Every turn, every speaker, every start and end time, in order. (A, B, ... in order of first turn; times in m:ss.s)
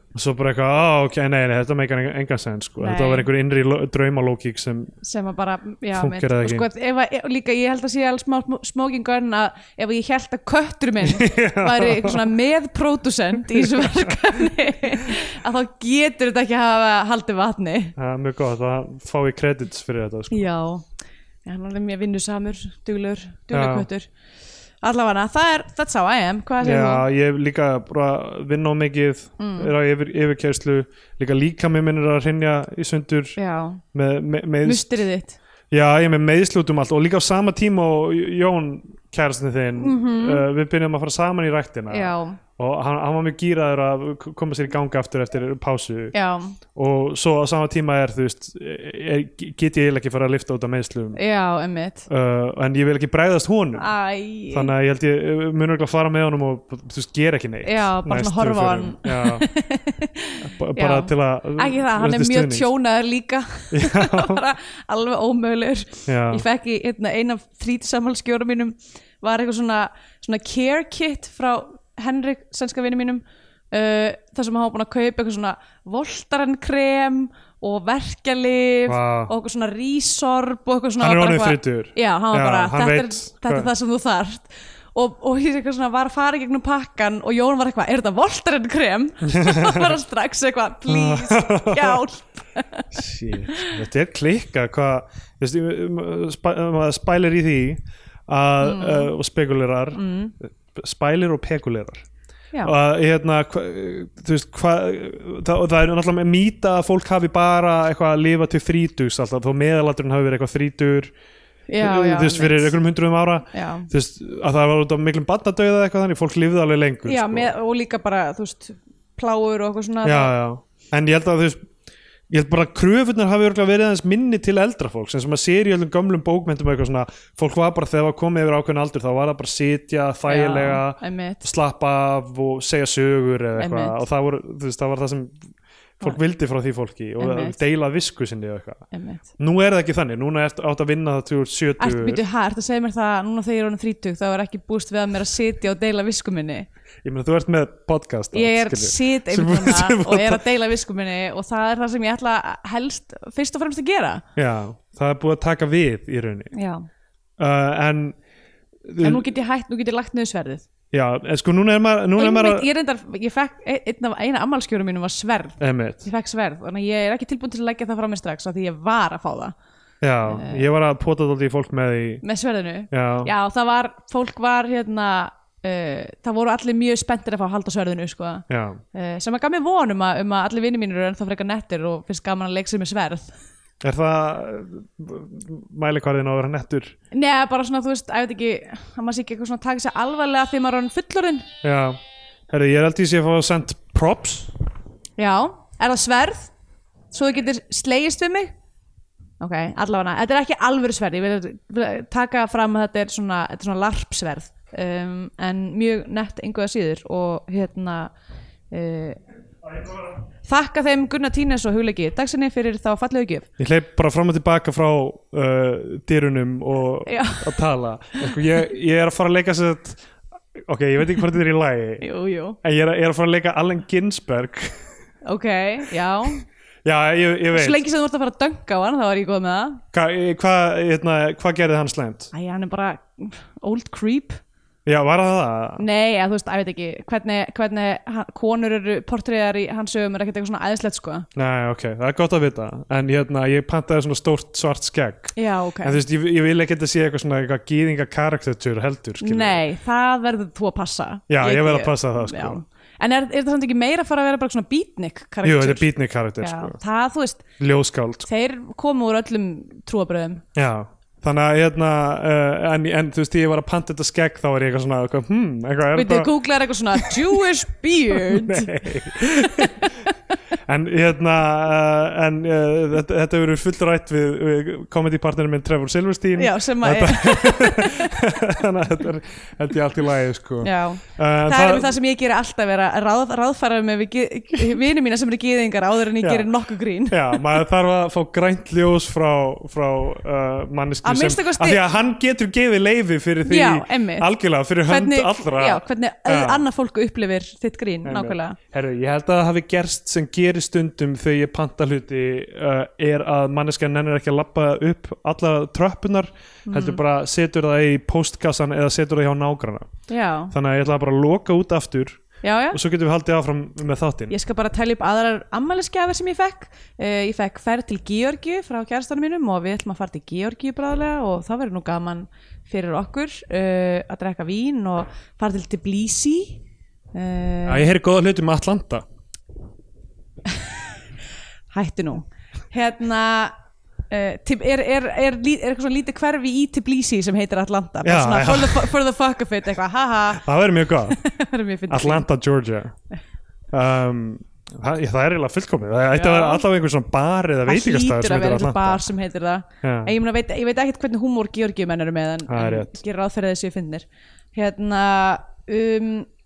0:00.1-0:04.9 A
0:02.8-0:03.3 B
0:05.0-0:18.0 B
0:05.9-0:06.6 A
0:11.0-0:12.3 A
0:13.6-0:14.1 A
0:18.0-0:20.4 A
0:20.3-0:20.9 B
0:21.4-0:24.1 B
0:23.5-0:23.9 A
0:24.8-0:27.0 B
0:26.6-0:33.4 A
0:29.4-0:29.7 B
0:33.4-0:33.8 B
0:33.9-0:35.0 A
0:34.6-0:35.4 B
0:35.7-0:46.1 A
0:39.8-0:40.4 B
0:41.9-0:42.4 B
0:46.1-0:46.6 B
0:46.7-0:51.2 A
0:51.1-0:52.1 B
0:52.1-0:53.9 A
0:53.8-0:54.7 B
0:54.5-0:59.5 A
0:57.6-1:32.9 B
1:00.4-1:02.7 A
1:03.7-1:04.4 A
1:06.1-1:06.4 A
1:18.9-1:19.3 A
1:21.0-1:23.7 A
1:29.2-1:29.9 A
1:30.9-1:32.0 A
1:32.9-1:42.0 A
1:33.5-1:33.8 B
1:38.6-1:39.1 B
1:39.9-1:40.3 B
1:42.6-1:51.1 A
1:51.7-1:52.7 B
1:51.8-1:57.5 A
1:53.5-1:53.9 B
1:57.0-2:00.3 B
2:00.0-2:01.7 A
2:02.3-2:15.4 A
2:10.3-2:11.4 B
2:13.6-2:14.0 B
2:16.0-2:18.8 A
2:17.2-2:17.6 B
2:18.9-2:19.2 B
2:19.4-2:22.2 A
2:21.8-2:26.7 B
2:27.0-2:30.4 A
2:28.3-2:34.2 B
2:34.4-2:36.5 A
2:36.5-2:36.8 B
2:37.4-2:38.2 A
2:38.8-2:39.2 A
2:39.0-2:40.6 B
2:40.9-2:42.7 A
2:42.2-2:49.5 B
2:45.6-2:46.0 A
2:50.0-2:52.2 A
2:50.2-2:50.6 B
2:52.2-3:03.3 B
2:52.9-2:53.3 A
2:58.5-2:58.8 A
3:03.8-3:06.9 A
3:07.1-3:11.5 B
3:11.6-3:12.0 A
3:12.5-3:14.6 A
3:15.2-3:16.5 B
3:17.1-3:18.5 B
3:19.4-3:28.1 B
3:28.7-3:29.2 B
3:30.4-3:33.5 B
3:33.6-3:40.0 A
3:37.0-3:37.6 B
3:40.5-3:42.0 A
3:42.0-3:42.6 B
3:42.6-3:44.8 A
3:45.2-3:46.4 B
3:46.8-3:47.8 A
3:47.5-3:49.8 B
3:49.9-3:52.3 A
3:52.3-3:54.4 B
3:54.8-3:55.8 A
3:55.8-4:01.3 B
4:01.3-4:09.6 A
4:05.4-4:06.0 B
4:09.2-4:17.4 B
4:11.3-4:12.6 A
4:15.4-4:16.8 A
4:17.6-4:18.3 A
4:18.2-4:20.4 B
4:20.6-4:26.3 A
4:25.9-4:30.1 B
4:28.1-4:30.0 A
4:30.6-4:41.9 A
4:36.4-4:38.2 B
4:40.6-4:47.6 B
4:46.2-4:46.5 A
4:47.1-4:56.6 A
4:51.0-4:51.8 B
4:53.4-4:54.3 B
4:54.9-4:58.6 B
4:58.0-5:09.9 A
5:06.7-5:07.0 B
5:10.1-5:10.5 B
5:10.5-5:14.3 A
5:12.4-5:12.8 B
5:14.3-5:26.6 B
5:27.1-5:27.9 B
5:27.6-5:29.0 A
5:31.7-5:33.5 B
5:34.1-5:40.4 B
5:38.0-5:38.9 A
5:40.3-5:41.2 A
5:41.0-5:42.2 B
5:41.9-5:42.9 A
5:43.7-5:49.0 A
5:46.1-5:46.7 B
5:47.7-5:56.3 B
5:49.8-5:50.1 A
5:52.5-5:53.0 A